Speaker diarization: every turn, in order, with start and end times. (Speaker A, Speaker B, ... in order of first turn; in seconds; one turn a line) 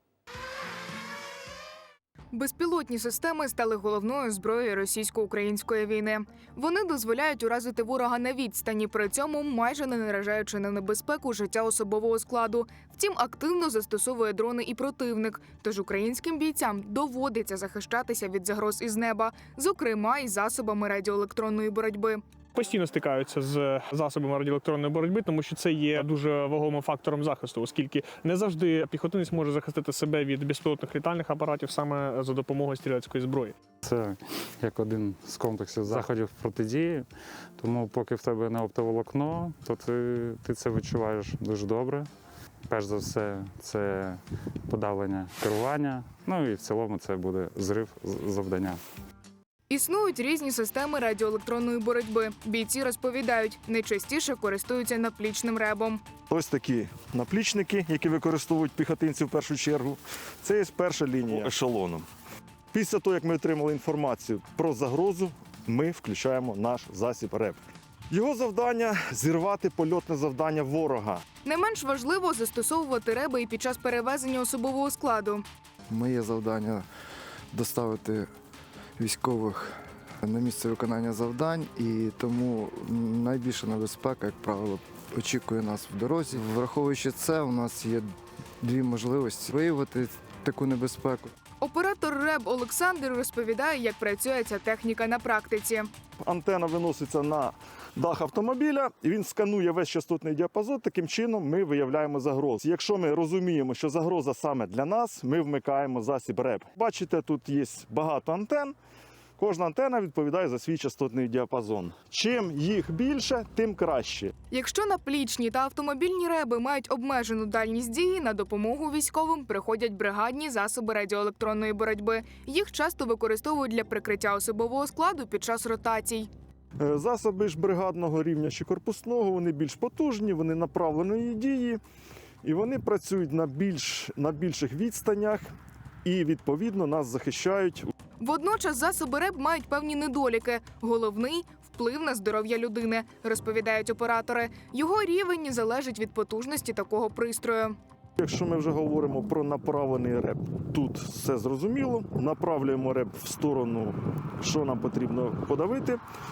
Speaker A: 2.3-22.2
Speaker B: 22.6-33.6
Speaker C: 33.8-42.1
Speaker C: 42.7-48.8
Speaker A: 49.7-56.0
Speaker D: 56.3-62.1
Speaker D: 62.7-67.6
Speaker D: 68.1-71.2
Speaker A: 71.4-75.4
Speaker E: 75.9-76.9
Speaker E: 77.5-78.3
Speaker E: 79.0-88.1
Speaker E: 88.6-91.3
Speaker A: 91.6-95.9
Speaker D: 96.2-108.8
Speaker D: 109.4-114.3
Speaker A: 114.5-126.3
Speaker D: 126.8-131.8
Speaker D: 132.4-135.5
Speaker D: 136.0-137.9
Speaker A: 138.2-147.8
Speaker D: 148.2-156.0